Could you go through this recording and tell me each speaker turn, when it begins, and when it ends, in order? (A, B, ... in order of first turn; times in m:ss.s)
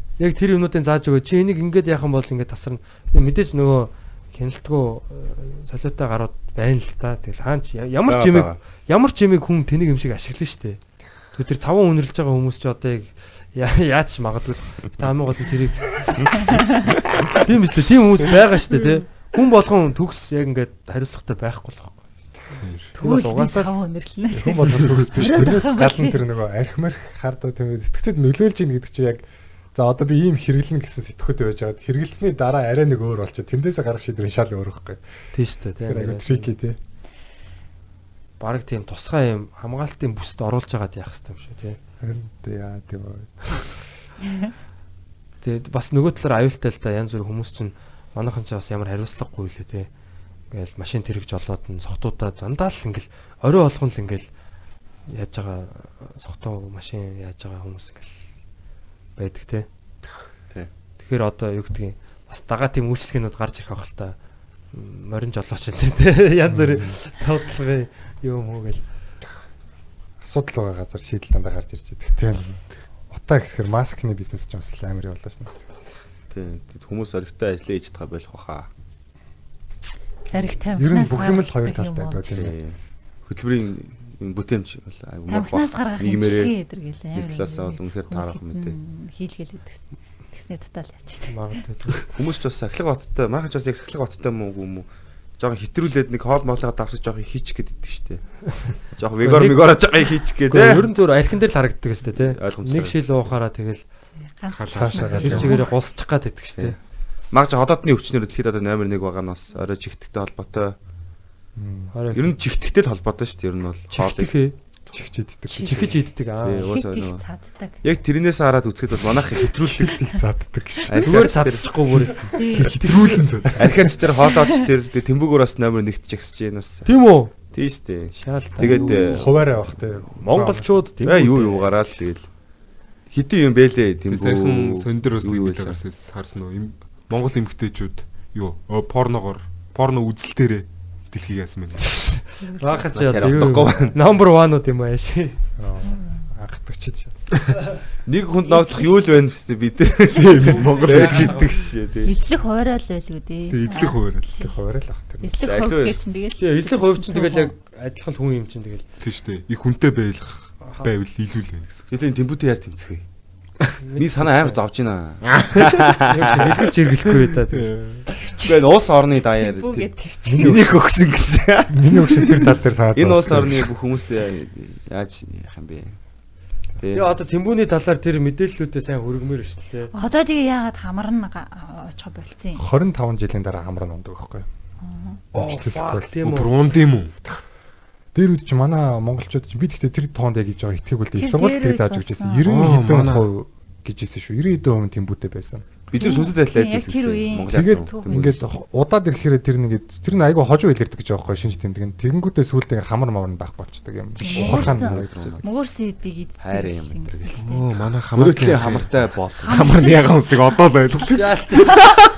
0:00.2-0:16.7 A
0:08.1-0:08.6 B
0:17.3-0:22.0 A
0:22.5-0:22.9 C
0:23.0-0:23.8 A
0:23.0-0:26.2 D
0:24.3-0:35.0 E
0:35.3-0:36.5 A
0:35.8-0:36.8 E
0:38.4-0:41.8 A
0:42.0-0:43.8 E
0:45.4-0:49.9 A
0:50.5-0:54.3 A
0:55.1-0:58.2 A
0:59.2-0:59.7 A
1:01.0-1:04.2 A
1:04.7-1:08.8 A
1:06.5-1:07.0 E
1:10.2-1:15.7 E
1:16.3-1:18.7 B
1:20.3-1:22.4 D
1:20.7-1:22.5 E
1:22.3-1:26.6 B
1:25.3-1:31.4 D
1:27.1-1:28.7 B
1:31.3-1:32.0 A
1:32.1-1:40.9 B
1:38.6-1:39.8 A
1:40.5-1:43.8 A
1:42.2-1:43.3 B
1:44.4-1:45.7 D
1:44.5-1:45.5 C
1:44.7-1:45.6 E
1:45.1-1:46.7 A
1:47.3-1:50.8 B
1:51.6-1:51.9 E
1:51.9-1:52.4 A
1:52.1-1:54.3 B
1:53.9-1:54.5 A
1:54.9-1:56.0 E
1:55.5-1:56.7 A
1:55.6-1:56.0 D
1:56.4-1:57.2 B
1:56.6-1:57.8 D
1:57.8-2:00.0 B
1:59.6-2:01.1 E
2:00.9-2:02.1 B
2:01.0-2:02.3 A
2:02.3-2:03.2 D
2:02.4-2:03.8 C
2:03.5-2:06.9 B
2:06.8-2:07.3 A
2:07.5-2:09.3 B
2:08.2-2:09.3 A
2:08.6-2:10.7 E
2:10.2-2:11.7 A
2:11.0-2:12.3 B
2:13.1-2:15.8 B
2:14.1-2:22.2 C
2:21.9-2:25.4 A
2:22.5-2:23.0 D
2:22.9-2:24.0 B
2:25.6-2:27.4 E
2:28.0-2:32.1 B
2:28.5-2:29.0 D
2:30.1-2:31.3 C
2:30.5-2:31.6 A
2:32.0-2:34.5 D
2:33.5-2:34.4 C
2:34.4-2:35.5 E
2:35.2-2:37.5 D
2:35.4-2:36.0 B
2:36.4-2:38.8 A
2:39.0-2:41.8 C
2:40.6-2:40.9 A
2:41.9-2:43.0 B
2:43.8-2:44.6 A
2:44.0-2:46.5 B
2:45.3-2:45.8 C
2:46.0-2:47.7 A
2:47.5-2:48.1 C
2:48.2-2:48.6 D
2:48.4-2:56.0 B
2:49.4-2:50.7 D
2:50.3-2:50.7 E
2:51.7-2:53.7 E
2:56.8-2:57.2 B
2:56.9-2:59.9 A
2:59.9-3:02.6 D
3:02.6-3:04.5 E
3:04.8-3:05.2 D
3:05.3-3:06.1 E
3:05.3-3:06.6 A
3:06.2-3:07.2 C
3:08.1-3:15.7 E
3:11.2-3:12.5 D
3:12.4-3:13.3 C
3:15.9-3:18.4 B
3:15.9-3:18.5 D
3:17.5-3:25.4 E
3:24.2-3:27.8 D
3:24.2-3:25.4 B
3:26.4-3:27.4 B
3:27.4-3:31.7 C
3:28.1-3:29.7 B
3:29.4-3:32.0 D
3:31.1-3:31.8 A